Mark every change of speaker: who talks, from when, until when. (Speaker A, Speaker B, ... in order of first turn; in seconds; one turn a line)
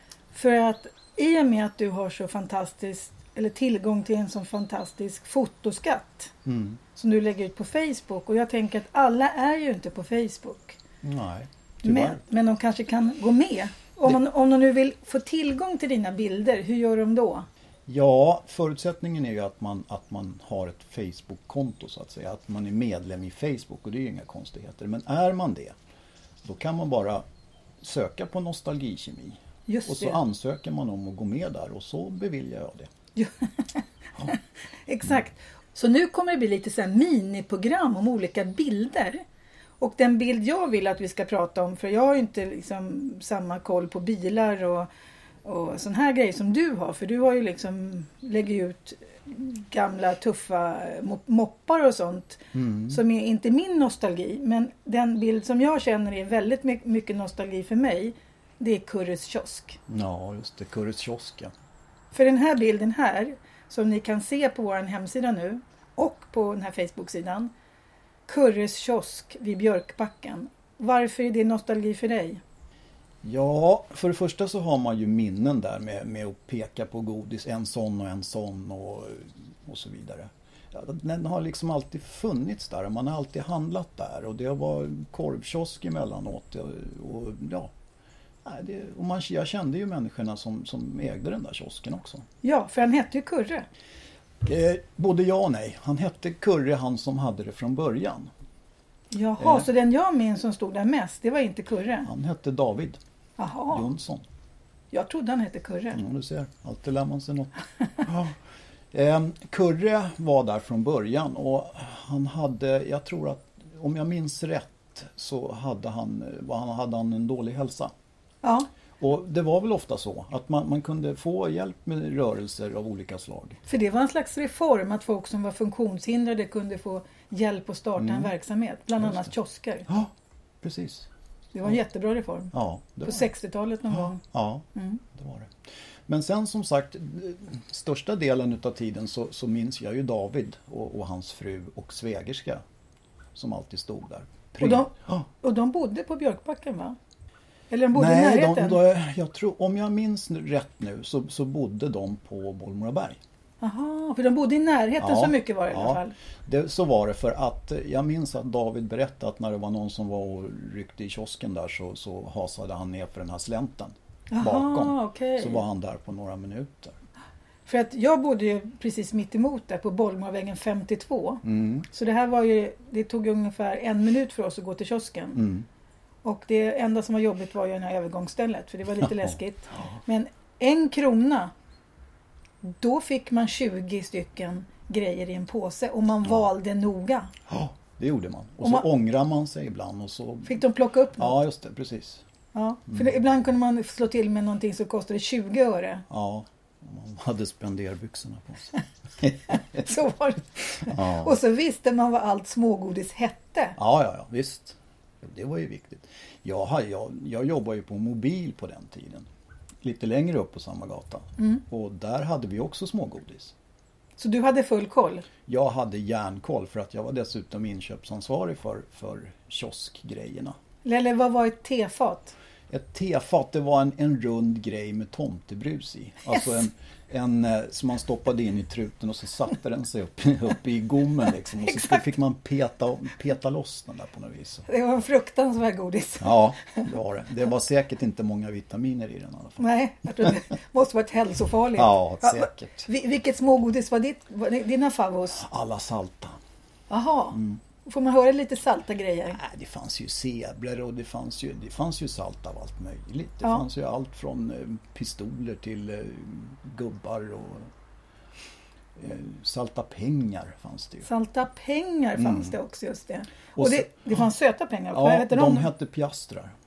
Speaker A: 0.3-6.3
Speaker B: 6.5-6.8
Speaker A: 6.9-10.8
Speaker B: 11.0-12.2
Speaker A: 11.8-17.5
Speaker B: 17.9-25.8
Speaker B: 26.4-27.2
Speaker B: 27.8-32.9
Speaker A: 29.7-30.2
Speaker A: 33.2-39.2
Speaker A: 39.8-44.9
Speaker A: 45.5-59.8
Speaker B: 52.5-53.0
Speaker B: 59.9-61.5
Speaker A: 62.1-67.5
Speaker A: 68.3-72.4
Speaker B: 73.2-87.7
Speaker B: 88.4-92.2
Speaker A: 92.4-93.7
Speaker B: 94.4-98.3
Speaker A: 99.1-102.1
Speaker B: 99.4-99.7
Speaker B: 102.0-103.0
Speaker A: 103.4-103.9
Speaker B: 103.7-104.2
Speaker A: 104.9-106.0
Speaker B: 105.9-108.3
Speaker B: 108.9-117.9
Speaker A: 118.4-118.7
Speaker B: 119.0-123.6
Speaker A: 123.7-129.9
Speaker B: 128.0-128.3
Speaker B: 129.0-129.3
Speaker B: 130.6-131.1
Speaker A: 131.5-134.2
Speaker B: 132.5-133.3
Speaker B: 133.9-135.5
Speaker A: 134.8-135.0
Speaker B: 136.1-142.6
Speaker B: 143.3-145.2
Speaker A: 144.6-147.0
Speaker A: 147.7-148.8
Speaker B: 147.9-153.2
Speaker A: 153.6-156.2
Speaker B: 155.0-167.0
Speaker A: 164.3-165.6
Speaker A: 167.7-175.4
Speaker B: 171.4-171.9
Speaker B: 175.4-175.7
Speaker A: 176.2-181.5
Speaker B: 179.0-179.3
Speaker A: 182.6-187.3
Speaker B: 187.5-190.6
Speaker A: 190.4-191.4
Speaker B: 191.2-192.2
Speaker A: 192.5-196.1
Speaker B: 196.1-199.9
Speaker A: 199.5-203.8
Speaker B: 200.8-201.4
Speaker B: 203.8-209.3
Speaker B: 209.8-213.5
Speaker A: 214.2-215.3
Speaker B: 215.5-220.6
Speaker A: 220.8-222.3
Speaker B: 222.7-234.7
Speaker A: 231.6-232.0
Speaker A: 234.7-236.9
Speaker B: 236.2-239.7
Speaker A: 239.6-245.4
Speaker B: 241.8-242.9
Speaker B: 245.3-246.4
Speaker A: 246.9-249.4
Speaker B: 247.3-247.6
Speaker B: 249.3-257.7
Speaker B: 259.0-261.1
Speaker A: 261.1-265.7
Speaker B: 262.2-262.6
Speaker B: 263.6-263.9
Speaker B: 264.9-266.5